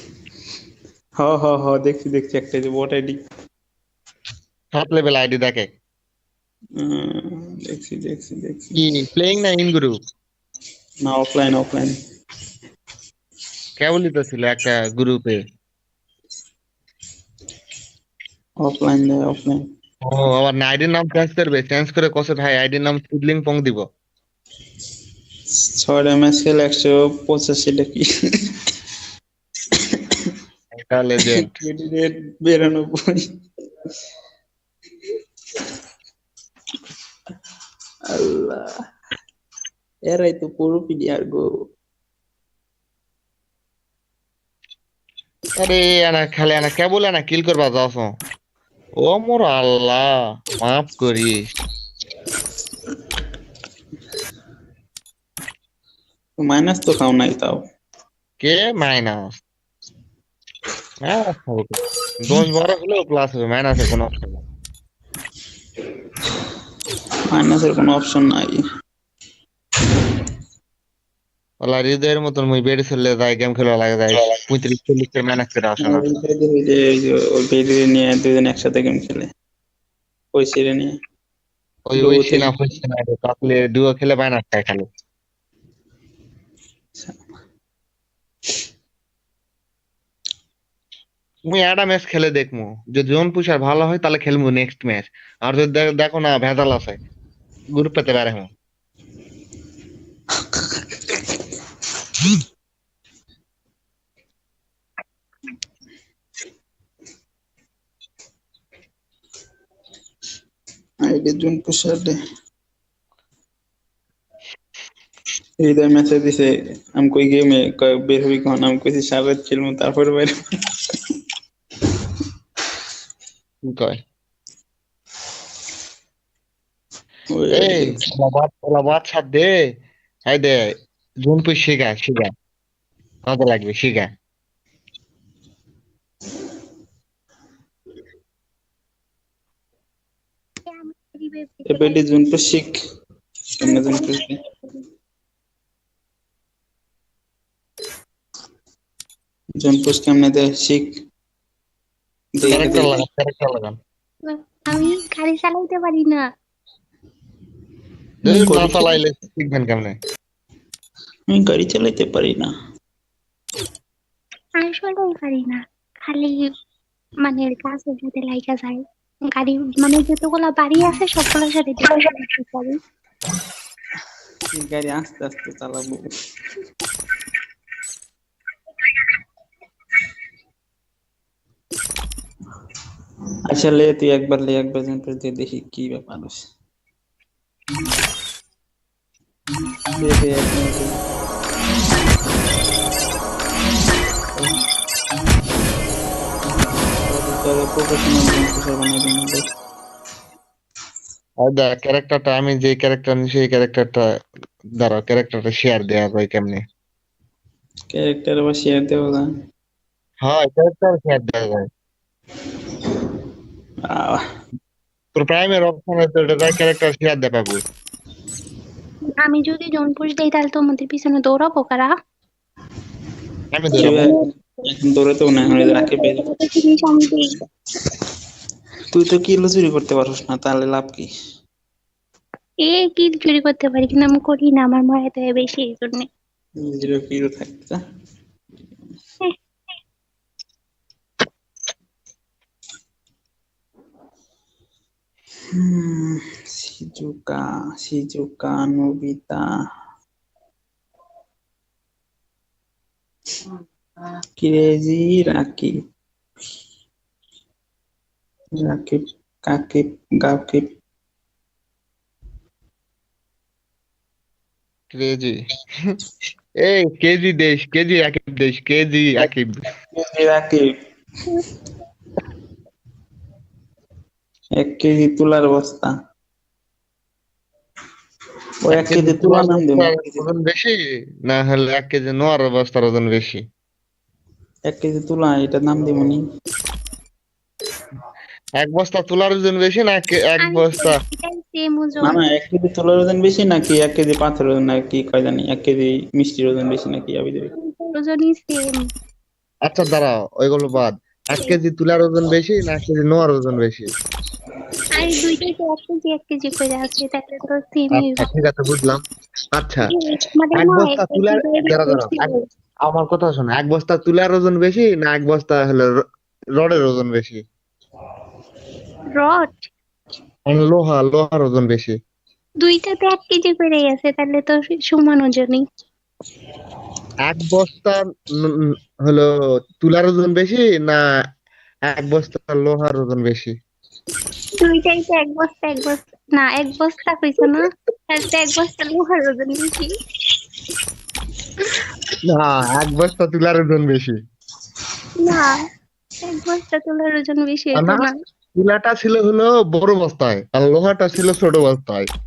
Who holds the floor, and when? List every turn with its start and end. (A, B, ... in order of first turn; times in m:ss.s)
0:01.2-0:03.2 A
0:04.7-0:05.7 B
0:06.8-0:08.8 A
0:08.7-0:10.0 B
0:11.0-0:11.9 A
0:13.8-0:15.4 B
0:18.6-0:19.6 A
0:20.0-0:23.8 B
0:25.6-0:28.0 A
0:30.7-0:31.6 B
0:31.4-0:33.2 A
0:38.1-0:38.6 A
0:40.1-0:41.4 A
0:45.6-0:48.2 B
0:49.0-0:51.4 B
0:56.4-0:57.6 A
0:58.4-0:59.4 B
1:01.0-1:04.4 B
1:07.3-1:08.6 A
1:11.6-1:16.0 B
1:15.8-1:19.3 A
1:20.3-1:20.9 A
1:21.9-1:24.8 B
1:21.9-1:22.6 A
1:31.4-1:37.0 B
1:37.7-1:38.5 B
1:51.0-1:52.1 A
1:55.6-2:00.3 A
2:03.6-2:04.0 B
2:07.3-2:08.0 A
2:07.5-2:09.5 B
2:10.3-2:10.6 B
2:11.2-2:12.3 B
2:13.2-2:14.1 B
2:20.7-2:22.0 C
2:21.7-2:22.7 A
2:23.6-2:24.4 A
2:23.6-2:24.8 C
2:29.6-2:30.9 A
2:32.4-2:33.0 A
2:32.5-2:33.8 B
2:34.2-2:36.2 C
2:38.2-2:38.9 A
2:38.2-2:40.0 B
2:41.3-2:42.5 A
2:44.6-2:46.4 C
2:47.2-2:52.8 C
2:54.5-2:56.1 A
3:03.5-3:06.4 A
3:10.0-3:10.9 A
3:17.1-3:19.4 A
3:21.4-3:24.0 B
3:24.8-3:26.6 B
3:27.9-3:29.2 A
3:30.2-3:31.7 B
3:33.9-3:34.2 A
3:35.1-3:37.6 B
3:39.2-3:41.9 C
3:43.5-3:44.1 B
3:43.7-3:46.2 A
3:43.8-3:44.2 C
3:45.6-3:47.4 C
3:48.9-3:51.1 A
3:52.6-3:56.0 C
3:56.6-3:57.8 A
4:05.6-4:09.4 A
4:14.4-4:15.7 A
4:18.6-4:20.6 A
4:24.9-4:26.0 B
4:26.6-4:29.5 B
4:29.9-4:30.7 A
4:34.6-4:35.9 A
4:38.6-4:40.2 A
4:38.7-4:43.4 B
4:44.7-4:46.2 A
4:48.6-4:51.0 B
4:50.4-4:52.2 C
4:52.0-4:57.5 A
4:57.6-4:58.8 C
4:59.6-5:03.9 B
5:04.9-5:08.3 C
5:07.9-5:09.0 B
5:09.6-5:09.9 B
5:09.9-5:12.4 C
5:10.5-5:12.3 B
5:12.8-5:16.0 B
5:16.6-5:17.4 B
5:19.2-5:19.7 C
5:20.4-5:21.9 B
5:22.6-5:25.6 C
5:27.3-5:29.3 B
5:29.8-5:31.0 B
5:31.9-5:33.5 B
5:34.6-5:39.9 C
5:42.2-5:44.2 B
5:45.2-5:45.6 C
5:46.2-5:48.1 C
5:47.7-5:52.1 B